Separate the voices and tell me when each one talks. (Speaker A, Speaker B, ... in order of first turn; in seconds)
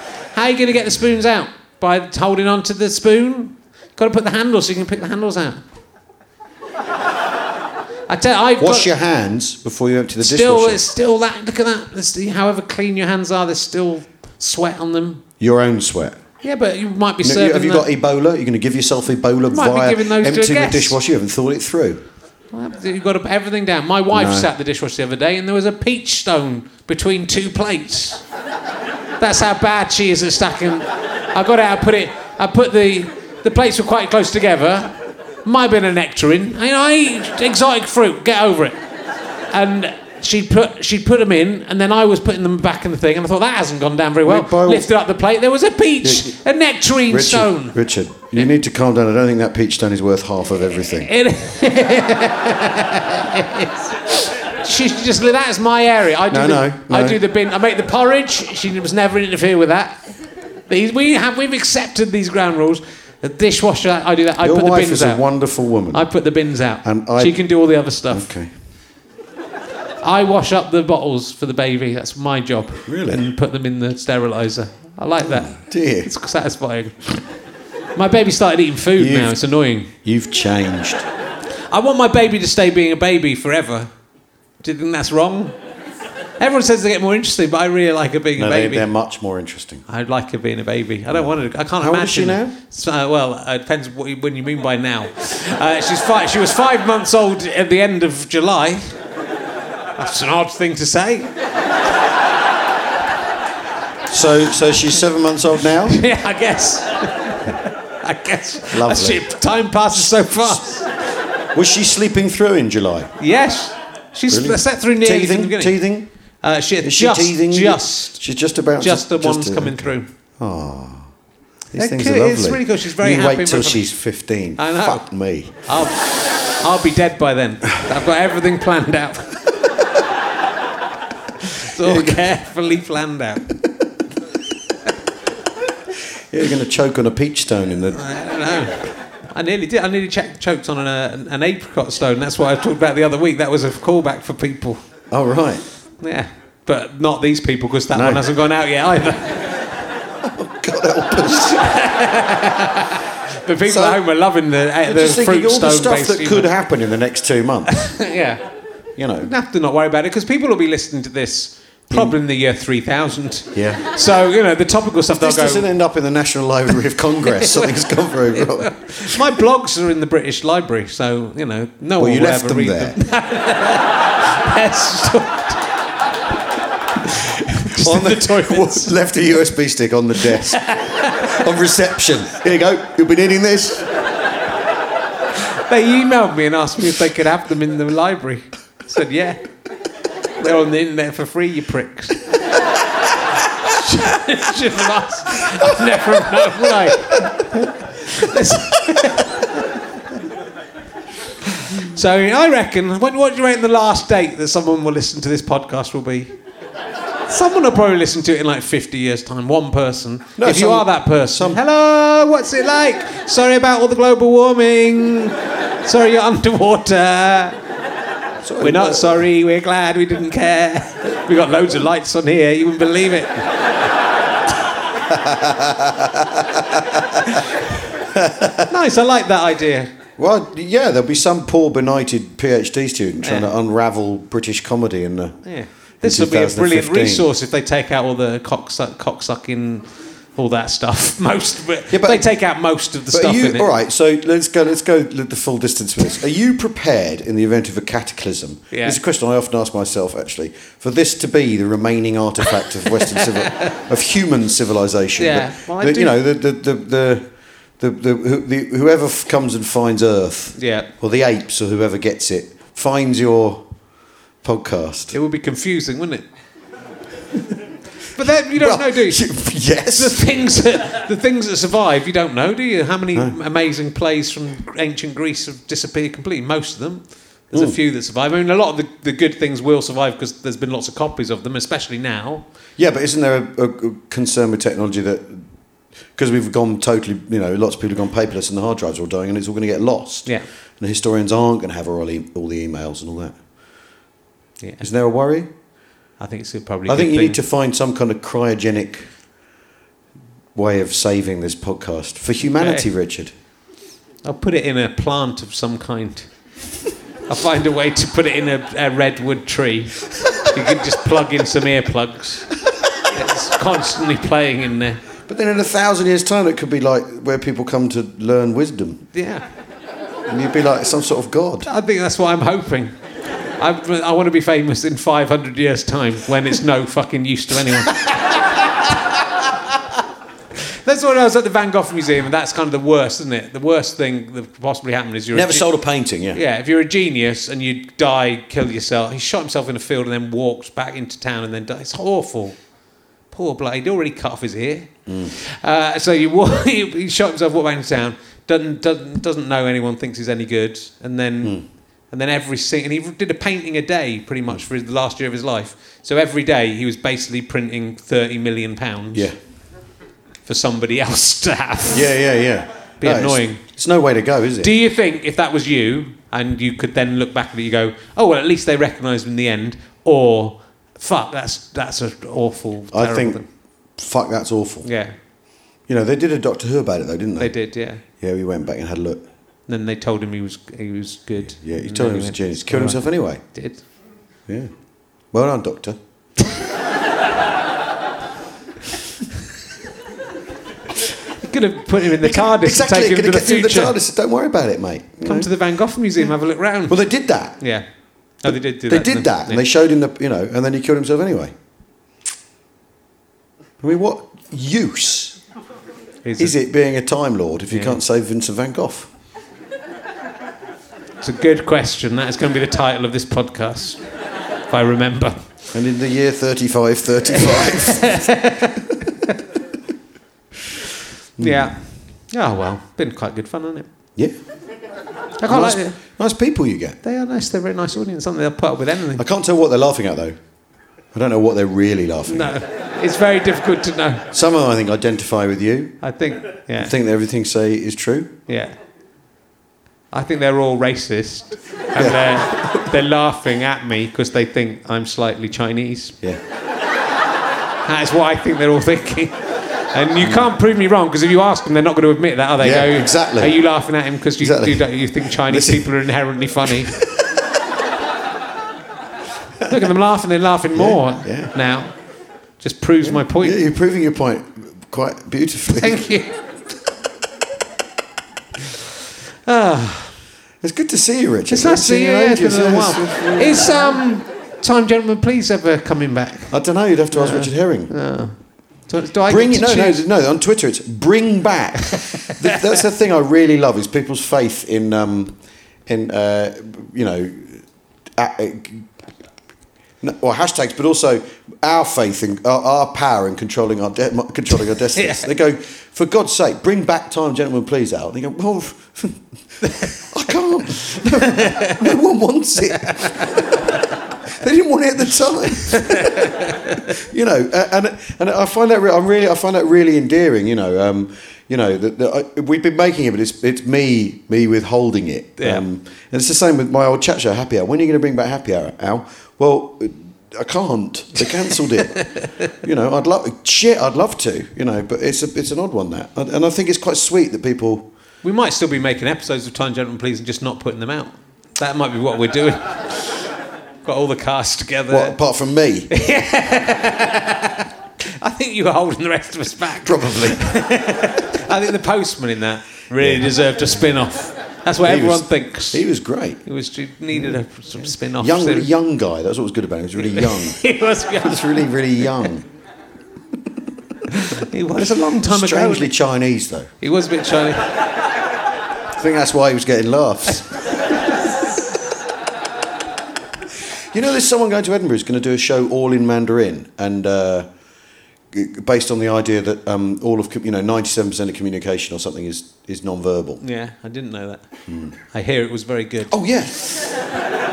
Speaker A: 0.3-5.6, 8.1-8.9, 10.2-15.2, 16.4-17.9, 19.5-21.0, 22.5-28.2, 29.2-38.8, 39.5-47.8, 51.0-68.3, 70.0-77.2, 77.9-79.9, 81.7-85.6, 86.4-88.9, 89.9-99.0, 99.9-101.3, 105.9-110.9, 113.2-118.2, 118.8-120.1, 121.7-123.9, 124.6-129.4, 131.4-133.5, 137.9-144.8, 146.0-149.7, 151.5-156.5, 157.8-158.6, 159.2-165.7, 167.4-167.6, 168.3-175.8, 177.6-178.9, 180.2-181.5, 185.5-189.5, 190.4-192.3, 193.6-199.5, 201.7-206.3, 207.3-217.6, 218.6-223.5, 228.7-229.9, 233.2-233.5, 235.4-243.7, 248.7-249.0, 253.0-253.7, 255.2-256.1, 260.6-260.9, 265.1-266.3, 268.1-282.4, 296.2-297.4, 302.5-302.9, 304.2-306.5, 307.3-315.0, 319.1-319.5, 321.6-322.9, 323.6-328.0, 330.8-342.6, 343.3-359.3, 360.4-362.1, 363.0-363.6, 364.6-373.4, 374.8-375.2, 377.4-378.0, 379.7-383.9, 391.4-393.9, 395.2-399.6, 406.2-406.5, 407.7-408.0, 411.2-415.7, 417.3-419.3, 421.4-423.9, 425.4-426.0, 427.0-429.2, 432.3-434.2, 436.0-436.9, 438.5-438.8, 440.1-446.2, 447.8-456.9, 459.7-463.6, 465.7-466.4, 469.4-470.2, 471.5-476.6, 477.1-480.0, 494.9-495.3, 499.6-499.9, 501.1-501.8, 502.7-503.5, 505.6-506.8, 515.4-515.6, 522.0-522.3, 528.2-533.3, 533.8-535.1, 535.9-537.6, 538.2-548.7, 550.0-552.2, 554.1-555.9, 556.8-557.8, 573.4-576.2
Speaker B: 8.6-10.8, 15.4-16.2, 17.2-22.0, 24.1-24.5, 44.2-44.9, 46.0-46.4, 47.0-51.1, 56.3-57.2, 64.4-68.5, 72.9-73.3, 75.2-76.1, 79.0-81.0, 88.4-89.8, 91.1-92.5, 104.1-106.1, 108.7-110.7, 111.5-113.2, 114.3-121.1, 121.7-125.7, 131.8-132.2, 136.3-138.2, 145.1-145.6, 147.9-148.2, 150.2-151.7, 153.7-154.0, 154.8-158.1, 159.0-159.3, 161.9-162.2, 163.5-163.8, 165.1-169.2, 172.0-173.0, 177.6-183.9, 196.4-196.7, 210.4-211.6, 218.4-219.3, 225.1-227.4, 228.0-228.7, 230.2-237.3, 241.9-263.7, 264.4-265.1, 268.5-270.3, 277.5-277.8, 282.8-293.4, 294.8-295.5, 296.9-299.2, 300.5-303.3, 315.2-319.1, 320.3-321.7, 335.3-336.4, 345.1-345.3, 361.9-364.7, 372.9-375.0, 375.8-379.2, 381.4-383.5, 384.5-386.0, 392.2-395.5, 396.9-397.7, 398.4-401.6, 403.8-405.4, 406.4-409.1, 415.7-418.4, 421.4-421.8, 424.1-424.4, 425.5-427.0, 429.2-430.4, 431.1-432.6, 434.3-436.0, 436.8-438.3, 441.9-442.9, 450.2-450.5, 452.6-453.8, 454.4-455.9, 456.9-457.3, 459.6-459.9, 460.7-461.5, 463.0-466.0, 470.6-473.9, 476.5-478.0, 479.3-488.9, 490.0-503.6, 504.3-527.9, 534.9-535.9, 539.8-540.8, 543.0-543.3, 544.8-546.5, 547.1-550.7, 551.2-552.5, 555.2-556.7, 559.0-560.9, 563.9-567.5, 568.3-573.4, 574.7-574.9, 576.1-577.0